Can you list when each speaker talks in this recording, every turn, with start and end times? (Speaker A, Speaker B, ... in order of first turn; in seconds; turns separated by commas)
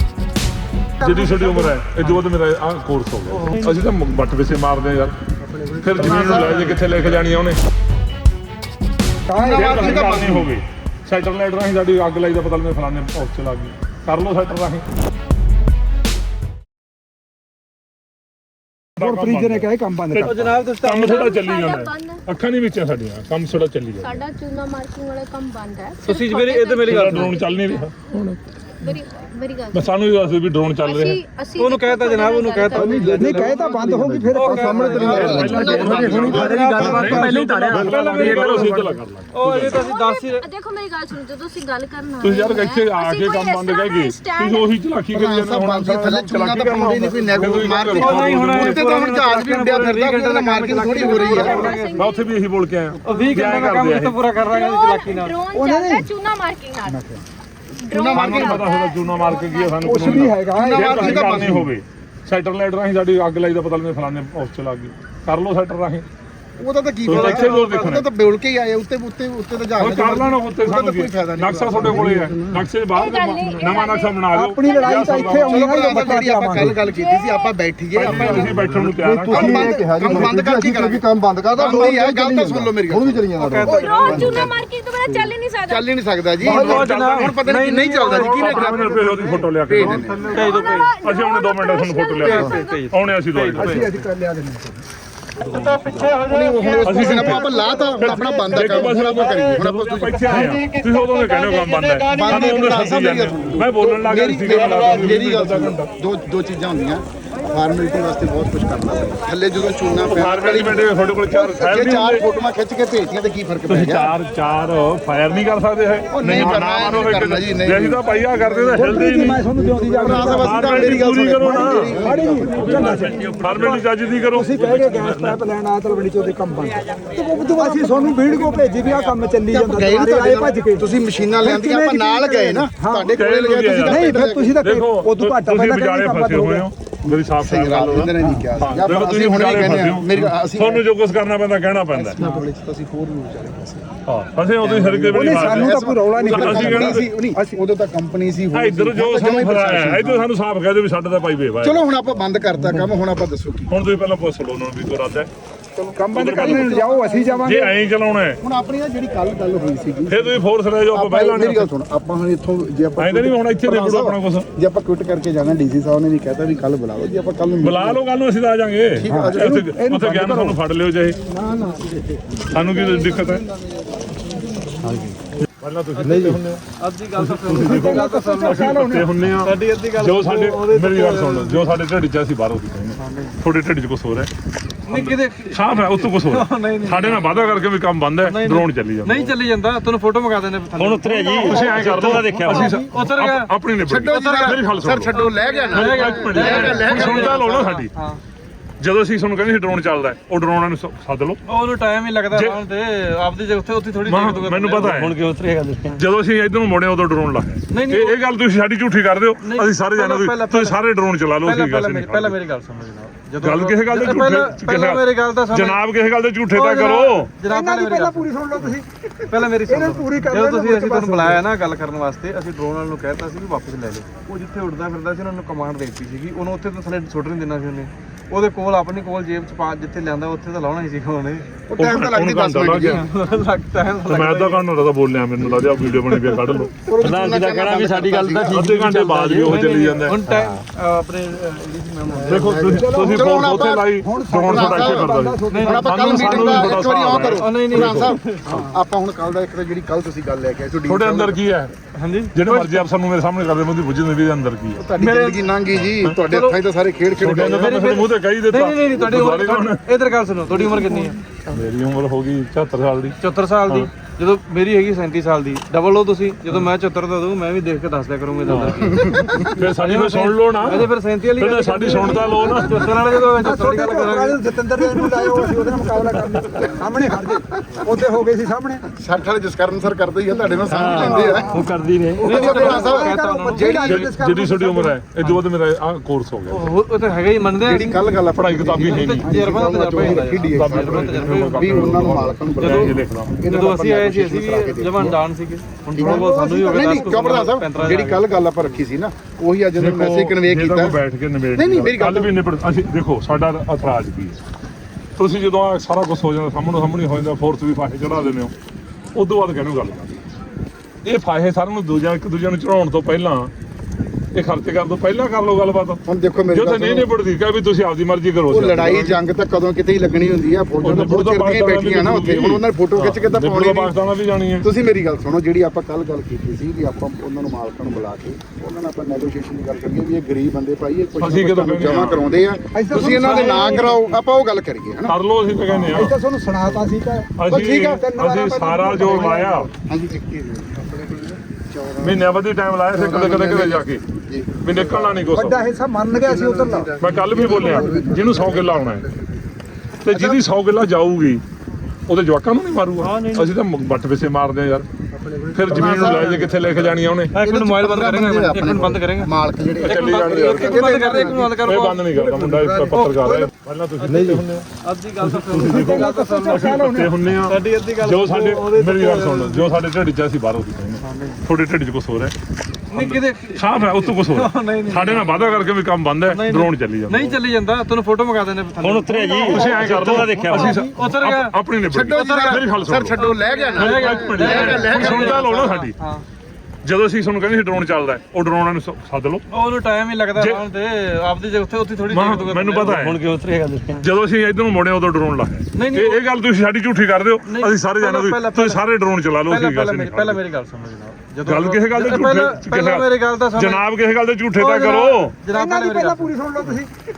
Speaker A: 1.0-1.8, Speaker B: 1.0-5.1, Speaker C: 3.3-3.8, Speaker B: 5.8-7.6, Speaker D: 6.0-6.7, Speaker A: 9.3-10.3, Speaker D: 9.4-10.5, Speaker B: 9.5-14.8, Speaker B: 19.0-24.1, Speaker A: 19.0-20.6, Speaker C: 20.2-21.3, Speaker E: 20.9-22.2, Speaker E: 24.0-27.8, Speaker C: 26.0-27.4, Speaker B: 26.9-28.4, Speaker E: 28.8-29.9, Speaker B: 29.7-31.2, Speaker E: 30.8-33.1, Speaker C: 31.6-40.4, Speaker A: 32.8-38.7, Speaker F: 34.5-38.9, Speaker D: 34.8-36.9, Speaker B: 35.0-39.8, Speaker E: 35.4-36.0, Speaker E: 39.6-44.8, Speaker B: 42.2-48.9, Speaker D: 45.1-51.7, Speaker C: 47.8-52.1, Speaker E: 50.7-52.3, Speaker B: 51.9-54.2, Speaker C: 53.0-55.3, Speaker E: 54.3-57.0, Speaker A: 55.5-56.1, Speaker A: 56.8-57.2, Speaker E: 57.7-60.1, Speaker D: 57.9-58.8, Speaker B: 58.1-66.0, Speaker A: 59.8-61.6, Speaker D: 60.5-61.6, Speaker D: 66.6-72.1, Speaker B: 67.0-68.1, Speaker B: 69.8-75.6, Speaker F: 71.9-72.5, Speaker E: 72.9-76.2, Speaker A: 74.3-76.8, Speaker D: 75.4-78.5, Speaker E: 76.8-77.6, Speaker B: 77.9-79.6, Speaker F: 78.1-84.5, Speaker E: 78.2-78.7, Speaker A: 79.3-79.9, Speaker G: 79.3-79.7, Speaker D: 79.6-81.0, Speaker D: 81.5-83.3, Speaker C: 83.4-84.5, Speaker E: 83.6-85.9, Speaker D: 85.7-90.5, Speaker C: 86.4-88.7, Speaker B: 86.6-87.3, Speaker B: 88.2-90.1, Speaker A: 88.6-89.4, Speaker C: 89.9-91.0, Speaker E: 90.3-92.9, Speaker B: 91.0-93.8, Speaker C: 92.2-94.0, Speaker A: 93.5-94.8, Speaker C: 95.4-96.2, Speaker B: 95.5-95.8, Speaker D: 96.1-100.7, Speaker B: 96.8-105.9, Speaker D: 102.1-114.1, Speaker B: 110.0-112.2, Speaker B: 113.7-119.5, Speaker D: 116.1-119.1, Speaker A: 118.7-130.8, Speaker D: 119.6-122.9, Speaker B: 120.3-122.0, Speaker G: 122.8-123.3, Speaker B: 123.4-125.3, Speaker D: 127.4-127.8, Speaker D: 129.5-134.6, Speaker A: 131.4-133.2, Speaker B: 133.1-142.2, Speaker A: 133.8-136.7, Speaker D: 137.4-140.8, Speaker D: 141.9-143.9, Speaker B: 144.1-147.1, Speaker D: 144.6-150.3, Speaker A: 145.1-147.5, Speaker B: 148.5-151.8, Speaker D: 151.6-153.7, Speaker B: 153.7-155.3, Speaker A: 155.8-157.7, Speaker B: 156.1-156.7, Speaker D: 156.2-157.4, Speaker B: 157.4-158.4, Speaker D: 158.4-160.4, Speaker B: 160.1-161.7, Speaker D: 160.9-168.0, Speaker B: 163.0-164.5, Speaker B: 167.6-171.2, Speaker D: 169.0-169.6, Speaker A: 169.1-170.6, Speaker D: 171.3-171.8, Speaker B: 172.5-173.4, Speaker G: 174.8-175.2, Speaker B: 175.6-176.6, Speaker G: 176.0-176.4, Speaker C: 176.8-178.9, Speaker B: 177.2-184.3, Speaker A: 177.6-179.1, Speaker C: 179.4-181.8, Speaker C: 183.0-183.4, Speaker C: 184.9-193.5, Speaker B: 184.9-189.3, Speaker G: 190.7-192.9, Speaker B: 191.4-195.2, Speaker A: 192.3-192.6, Speaker D: 193.8-197.8, Speaker C: 194.1-198.2, Speaker B: 195.7-197.9, Speaker B: 198.8-201.4, Speaker C: 201.5-204.9, Speaker B: 202.3-202.6, Speaker B: 204.1-205.2, Speaker G: 204.7-206.0, Speaker B: 206.0-212.3, Speaker C: 207.7-208.2, Speaker C: 209.4-215.8, Speaker B: 213.4-217.3, Speaker C: 216.5-218.8, Speaker A: 217.5-218.9, Speaker C: 219.3-231.6, Speaker A: 219.7-221.4, Speaker D: 231.7-233.0, Speaker B: 231.8-233.0, Speaker C: 232.8-234.7, Speaker B: 234.1-236.8, Speaker C: 235.4-236.7, Speaker D: 236.8-238.6, Speaker G: 237.0-239.7, Speaker B: 238.5-240.2, Speaker C: 239.4-242.6, Speaker G: 240.2-240.6, Speaker D: 242.3-243.9, Speaker B: 242.3-248.2, Speaker A: 242.3-246.9, Speaker D: 244.4-251.4, Speaker C: 245.5-245.8, Speaker C: 246.4-248.7, Speaker B: 250.9-251.7, Speaker C: 252.0-252.8, Speaker B: 252.3-254.8, Speaker D: 254.8-257.7, Speaker C: 255.0-255.5, Speaker B: 255.8-256.2, Speaker C: 256.3-256.6, Speaker B: 257.2-259.8, Speaker C: 257.2-261.4, Speaker B: 261.5-263.1, Speaker C: 263.2-276.7, Speaker B: 268.4-269.0, Speaker D: 268.8-269.5, Speaker B: 269.6-272.8, Speaker A: 273.4-278.8, Speaker D: 278.9-281.5, Speaker G: 280.6-282.5, Speaker C: 280.9-281.4, Speaker A: 281.2-285.0, Speaker C: 282.2-283.7, Speaker D: 282.2-284.1, Speaker B: 283.9-286.7, Speaker C: 285.2-285.5, Speaker C: 286.5-288.0, Speaker D: 287.6-295.2, Speaker B: 288.3-289.4, Speaker C: 288.8-298.3, Speaker B: 290.4-293.4, Speaker A: 296.0-297.3, Speaker D: 296.0-301.0, Speaker B: 299.8-304.4, Speaker D: 301.6-302.3, Speaker B: 305.2-308.5, Speaker B: 309.1-310.1, Speaker B: 311.0-313.5, Speaker B: 314.3-319.2, Speaker D: 316.1-317.1, Speaker D: 318.5-323.9, Speaker B: 320.8-324.6, Speaker D: 324.6-335.1, Speaker B: 331.2-332.2, Speaker A: 332.7-334.0, Speaker B: 335.1-336.2, Speaker A: 335.8-339.5, Speaker B: 337.4-339.7, Speaker D: 337.5-340.8, Speaker D: 341.7-342.2, Speaker B: 342.0-344.0, Speaker D: 342.9-345.0, Speaker B: 344.6-345.6, Speaker A: 345.3-348.1, Speaker B: 347.0-349.1, Speaker F: 347.8-348.7, Speaker B: 350.0-351.4, Speaker D: 350.1-350.4, Speaker B: 352.1-354.9, Speaker C: 353.0-353.5, Speaker B: 355.5-357.4, Speaker D: 355.7-356.4, Speaker C: 357.3-359.3, Speaker D: 357.4-361.5, Speaker B: 359.8-364.6, Speaker C: 359.8-363.1, Speaker C: 364.0-366.9, Speaker G: 364.1-364.4, Speaker G: 365.3-365.8, Speaker A: 365.6-367.1, Speaker B: 365.8-372.3, Speaker C: 367.4-369.8, Speaker C: 371.0-371.4, Speaker C: 372.9-375.7, Speaker B: 372.9-377.4, Speaker C: 376.2-381.5, Speaker G: 378.8-380.7, Speaker B: 379.4-383.1, Speaker A: 379.6-379.9, Speaker A: 380.4-380.9, Speaker D: 381.9-385.7, Speaker C: 382.1-386.2, Speaker B: 383.8-385.9, Speaker B: 386.8-389.4, Speaker C: 389.5-393.0, Speaker B: 390.4-390.6, Speaker B: 392.1-393.2, Speaker G: 392.8-394.0, Speaker B: 394.0-400.4, Speaker C: 395.7-396.2, Speaker C: 397.4-398.9, Speaker C: 399.5-403.9, Speaker B: 401.4-405.3, Speaker C: 404.5-406.8, Speaker A: 405.5-406.9